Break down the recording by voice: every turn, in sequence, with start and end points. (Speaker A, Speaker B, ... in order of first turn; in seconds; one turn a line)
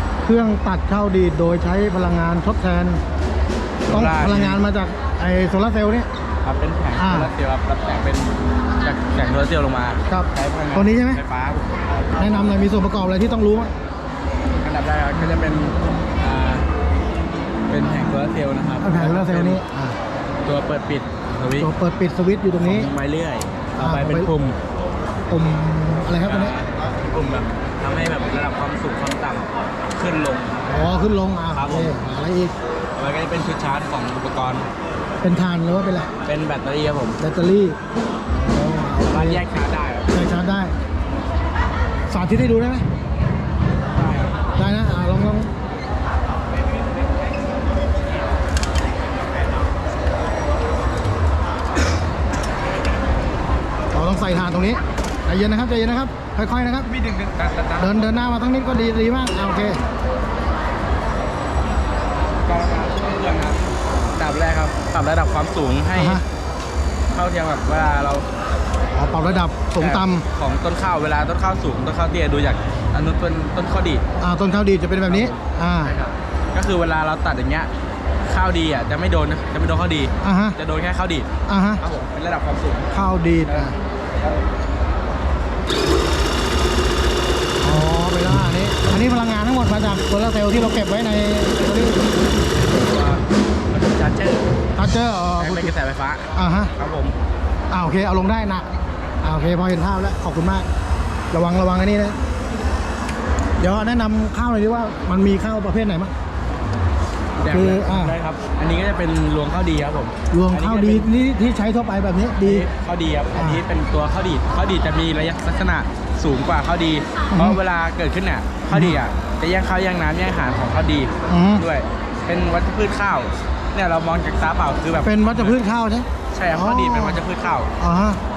Speaker A: 0.2-3.0
Speaker B: 3.9-4.6
Speaker A: 3.9-6.1
Speaker B: 6.4-12.6
Speaker A: 7.0-7.3
Speaker A: 10.1-11.2
Speaker A: 12.2-13.7
Speaker B: 14.6-16.7
Speaker B: 17.7-19.6
Speaker A: 18.8-20.0
Speaker B: 20.4-21.7
Speaker A: 21.6-22.9
Speaker B: 22.6-24.6
Speaker A: 23.8-24.3
Speaker A: 25.3-26.6
Speaker B: 26.2-30.7
Speaker A: 30.7-32.5
Speaker B: 31.5-32.0
Speaker B: 33.0-34.7
Speaker A: 35.2-36.1
Speaker B: 36.2-37.2
Speaker A: 37.2-37.8
Speaker A: 38.3-39.4
Speaker B: 39.0-40.1
Speaker A: 40.1-40.8
Speaker A: 42.1-42.9
Speaker B: 44.0-44.4
Speaker A: 44.5-45.5
Speaker A: 53.9-56.9
Speaker B: 56.9-58.2
Speaker A: 57.8-59.8
Speaker B: 62.4-63.6
Speaker B: 64.2-66.2
Speaker A: 66.0-66.2
Speaker B: 67.1-68.3
Speaker A: 69.0-70.3
Speaker B: 69.8-74.0
Speaker A: 74.2-75.9
Speaker B: 75.1-77.7
Speaker B: 78.3-81.3
Speaker A: 80.2-80.6
Speaker A: 81.5-81.8
Speaker B: 81.8-84.4
Speaker A: 82.9-83.8
Speaker A: 87.6-92.0
Speaker B: 92.6-94.5
Speaker A: 94.8-95.7
Speaker B: 95.4-97.2
Speaker A: 96.3-96.7
Speaker A: 97.7-98.7
Speaker A: 99.2-100.7
Speaker A: 101.3-102.2
Speaker A: 103.6-106.1
Speaker B: 107.4-111.1
Speaker A: 107.5-108.2
Speaker A: 110.3-112.7
Speaker B: 112.4-125.6
Speaker A: 113.4-113.6
Speaker A: 117.3-117.6
Speaker A: 118.7-119.0
Speaker A: 121.3-121.7
Speaker A: 125.0-127.2
Speaker B: 126.3-127.7
Speaker A: 127.8-128.2